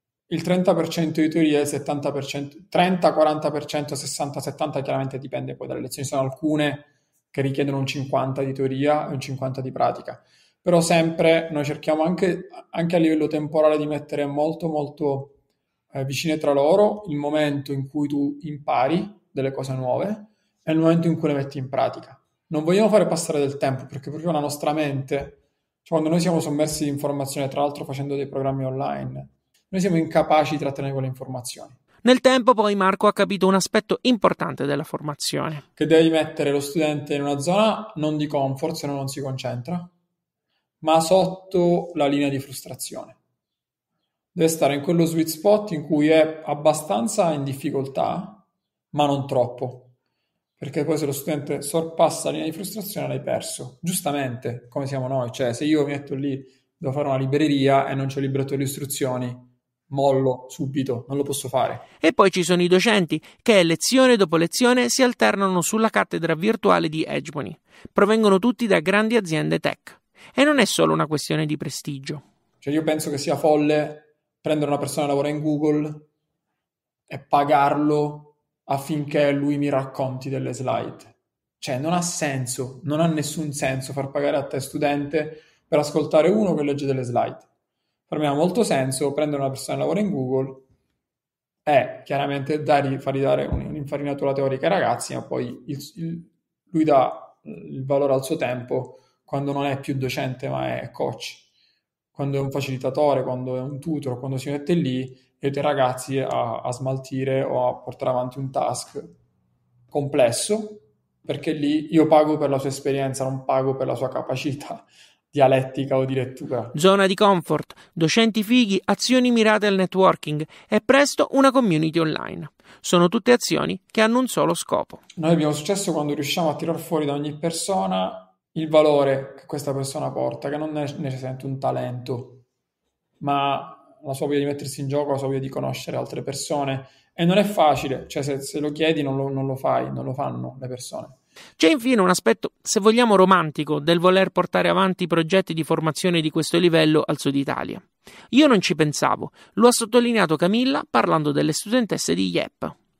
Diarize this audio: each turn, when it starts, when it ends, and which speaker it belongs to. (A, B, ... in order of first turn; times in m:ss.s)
0:00.3-0:15.4 A
0:15.9-0:31.8 A
0:32.0-0:35.6 B
0:35.8-0:39.9 A
0:40.8-0:43.2 A
0:44.3-0:49.9 A
0:50.6-1:01.8 A
1:02.0-1:12.2 B
1:12.6-1:16.1 A
1:17.1-1:27.4 A
1:28.1-1:30.6 A
1:31.6-1:41.4 A
1:42.1-1:49.1 A
1:49.9-1:56.7 A
1:56.7-2:05.0 B
2:05.2-2:12.4 A
2:13.2-2:21.2 A
2:21.6-2:32.7 B